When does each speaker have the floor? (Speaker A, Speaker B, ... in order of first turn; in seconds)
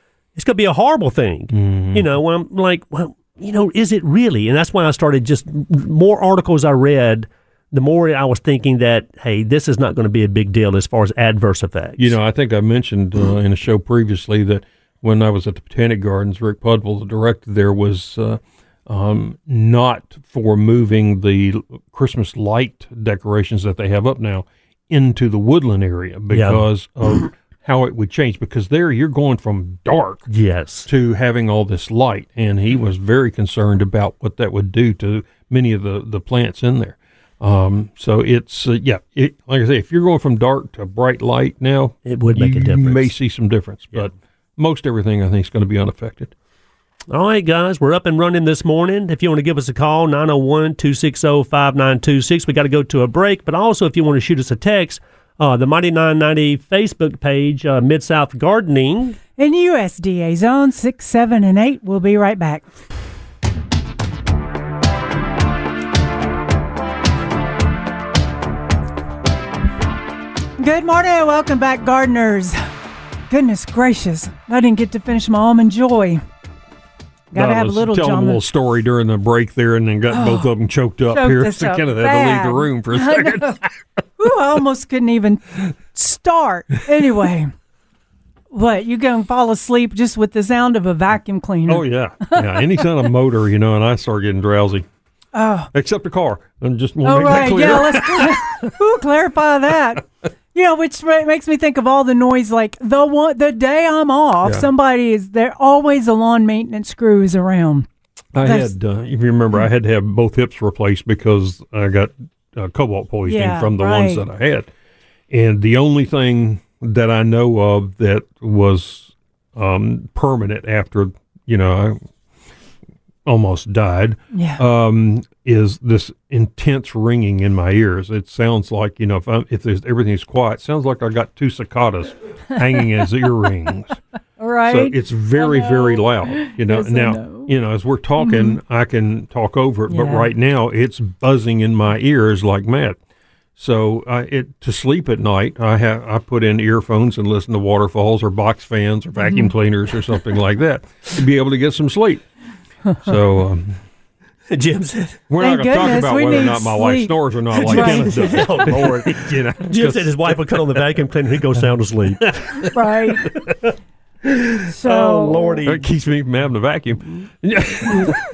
Speaker A: 0.4-12.2, 26.3-26.6, 30.3-30.9, 42.1-43.1, 47.1-59.2, 154.5-155.2, 157.6-162.7, 164.8-165.8
Speaker B: 1.5-2.1, 12.0-30.3, 30.9-46.3, 77.3-83.8, 91.7-94.9, 95.7-98.7, 108.3-114.7, 115.3-122.0, 123.2-134.0, 134.7-143.0, 143.6-152.2, 153.0-153.8, 155.3-160.8, 162.2-162.7, 165.7-168.2
Speaker C: 59.4-62.6, 70.6-72.6, 73.3-76.2, 77.3-78.4, 80.1-80.5, 81.1-83.6, 84.2-87.5, 88.5-92.8, 95.3-95.7, 97.0-107.9, 108.4-108.7, 113.3-114.2, 124.3-124.6, 134.4-137.5, 138.2-138.6, 139.9-140.3, 149.2-149.5, 155.4-157.1, 157.7-158.7, 162.7-163.3, 164.7-165.6